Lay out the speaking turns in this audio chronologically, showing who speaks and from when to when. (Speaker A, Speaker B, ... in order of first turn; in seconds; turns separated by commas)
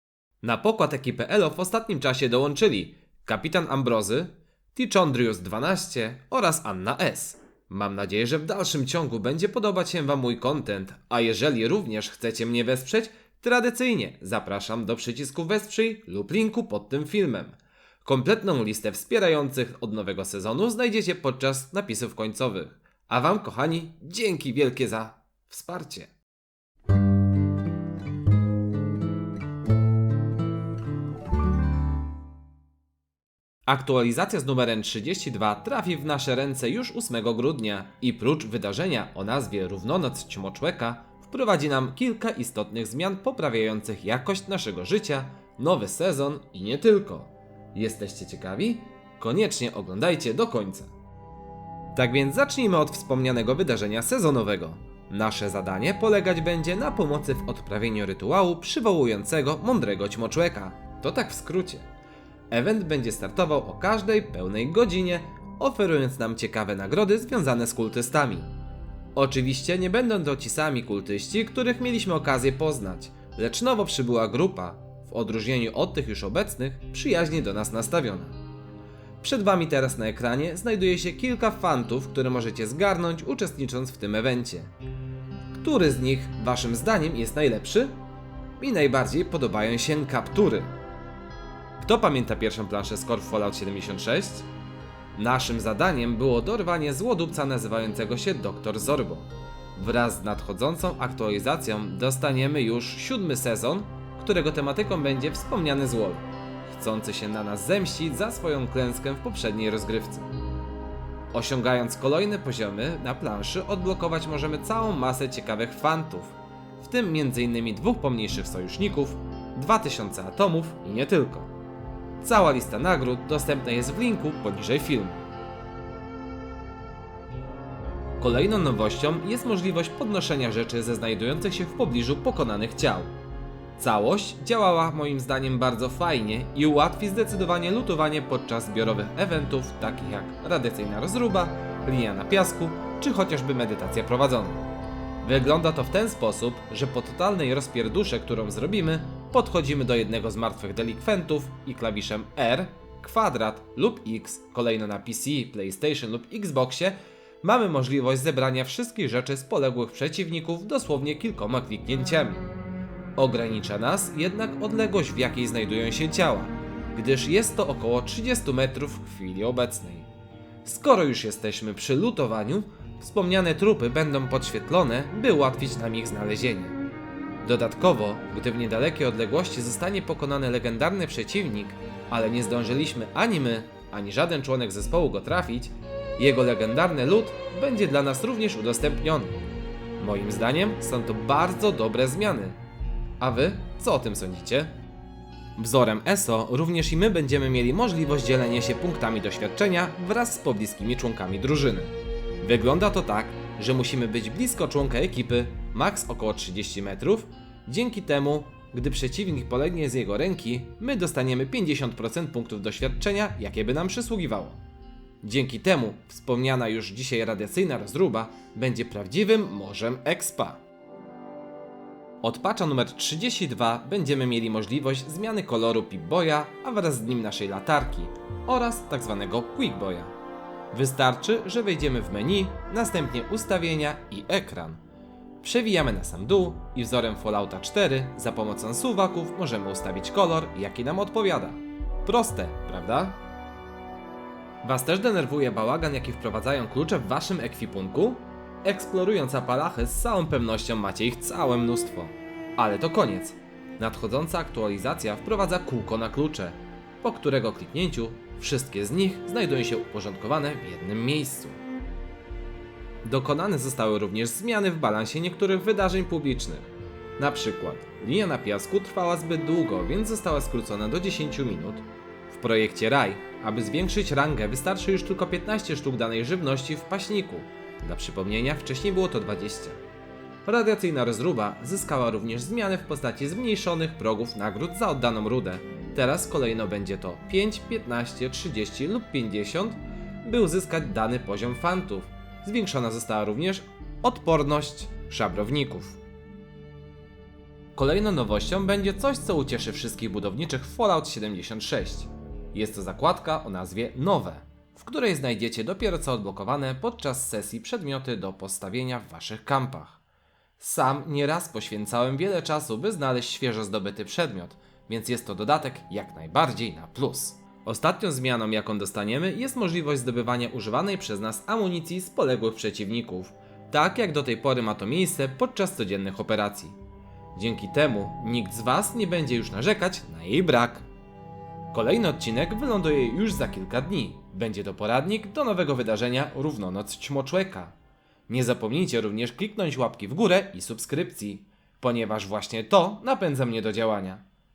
Speaker A: 0.4-26.1, Speaker A: 33.7-50.9, Speaker A: 51.9-61.9, Speaker A: 62.5-68.5, Speaker A: 69.2-78.4, Speaker A: 79.2-84.7, Speaker A: 85.5-88.0, Speaker A: 88.6-90.7, Speaker A: 91.8-94.5, Speaker A: 95.2-110.3, Speaker A: 111.3-121.5, Speaker A: 122.2-125.2, Speaker A: 128.2-133.1, Speaker A: 133.8-144.6, Speaker A: 145.2-162.5, Speaker A: 163.2-170.1, Speaker A: 170.6-176.8, Speaker A: 177.4-189.4, Speaker A: 190.0-192.6, Speaker A: 193.2-194.7, Speaker A: 195.6-214.6, Speaker A: 215.2-220.6, Speaker A: 222.2-230.1, Speaker A: 230.7-234.8, Speaker A: 235.4-243.2, Speaker A: 244.6-261.6, Speaker A: 263.0-279.8, Speaker A: 280.4-296.0, Speaker A: 297.8-310.0, Speaker A: 310.6-326.8, Speaker A: 327.4-330.9, Speaker A: 331.7-337.7, Speaker A: 338.3-344.2